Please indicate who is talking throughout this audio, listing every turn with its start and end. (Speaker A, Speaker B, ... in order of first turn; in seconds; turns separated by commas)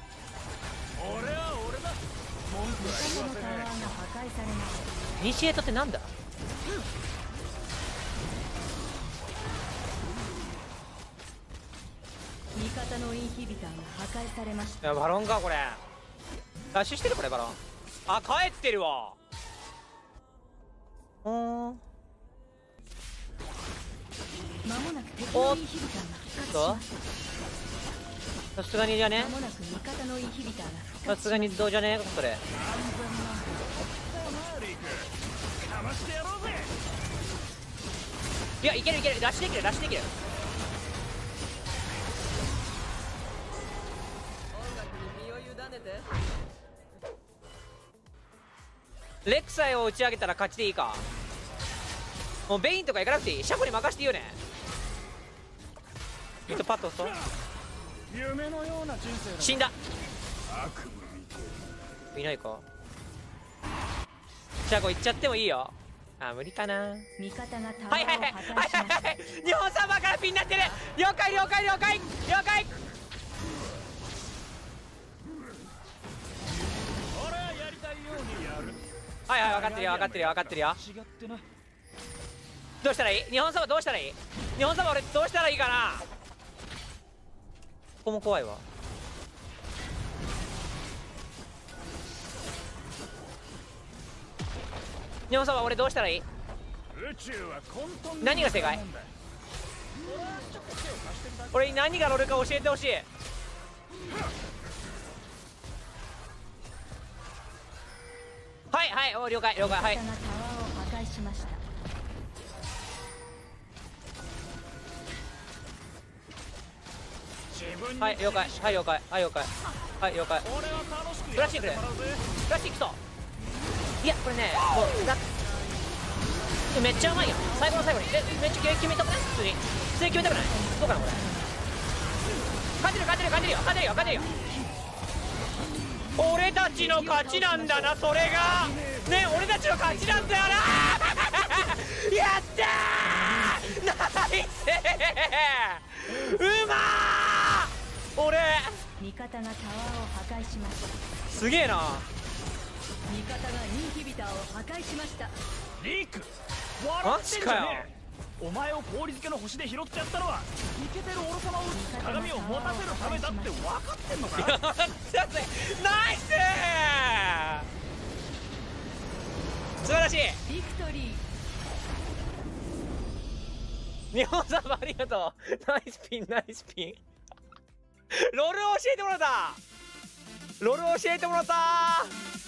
Speaker A: 1.0-4.0, Speaker B: 2.8-5.0, Speaker C: 5.2-6.1, Speaker B: 12.5-14.9, Speaker C: 14.8-15.8, Speaker C: 16.7-19.2, Speaker C: 21.2-21.8, Speaker B: 24.6-26.9, Speaker C: 25.3-25.6, Speaker C: 26.5-26.8, Speaker C: 28.6-29.4, Speaker B: 29.1-31.7, Speaker C: 31.1-32.4, Speaker A: 32.5-36.7, Speaker C: 38.6-40.1, Speaker C: 49.2-51.0, Speaker C: 52.5-54.4, Speaker C: 56.5-57.2, Speaker A: 57.0-57.3, Speaker A: 58.1-59.7, Speaker C: 59.4-59.7, Speaker A: 60.5-61.6, Speaker C: 62.1-62.6, Speaker C: 64.7-67.1, Speaker B: 67.2-69.1, Speaker C: 67.9-72.8, Speaker A: 77.1-78.8, Speaker C: 79.3-80.8, Speaker A: 79.4-81.5, Speaker C: 82.8-86.0, Speaker C: 88.0-88.6, Speaker C: 95.3-96.2, Speaker A: 96.9-99.1, Speaker C: 98.2-98.8, Speaker A: 100.0-102.0, Speaker C: 101.5-103.1, Speaker C: 108.7-110.0, Speaker B: 109.6-111.6, Speaker A: 117.5-118.9, Speaker C: 118.0-120.5, Speaker A: 120.4-122.2, Speaker C: 121.3-121.8, Speaker C: 122.4-123.0, Speaker C: 124.0-125.2, Speaker C: 126.7-131.2, Speaker B: 130.1-131.6, Speaker C: 132.8-134.3, Speaker C: 136.2-148.8, Speaker B: 136.8-138.0, Speaker A: 138.1-140.7, Speaker B: 143.1-143.8, Speaker B: 149.0-151.0, Speaker C: 151.3-152.1, Speaker B: 153.1-155.3, Speaker A: 155.8-164.6, Speaker C: 157.0-157.9, Speaker B: 161.7-163.7, Speaker C: 164.3-167.7, Speaker C: 169.8-170.4, Speaker B: 170.4-171.2, Speaker C: 174.1-177.0, Speaker C: 178.1-179.6, Speaker C: 180.6-182.2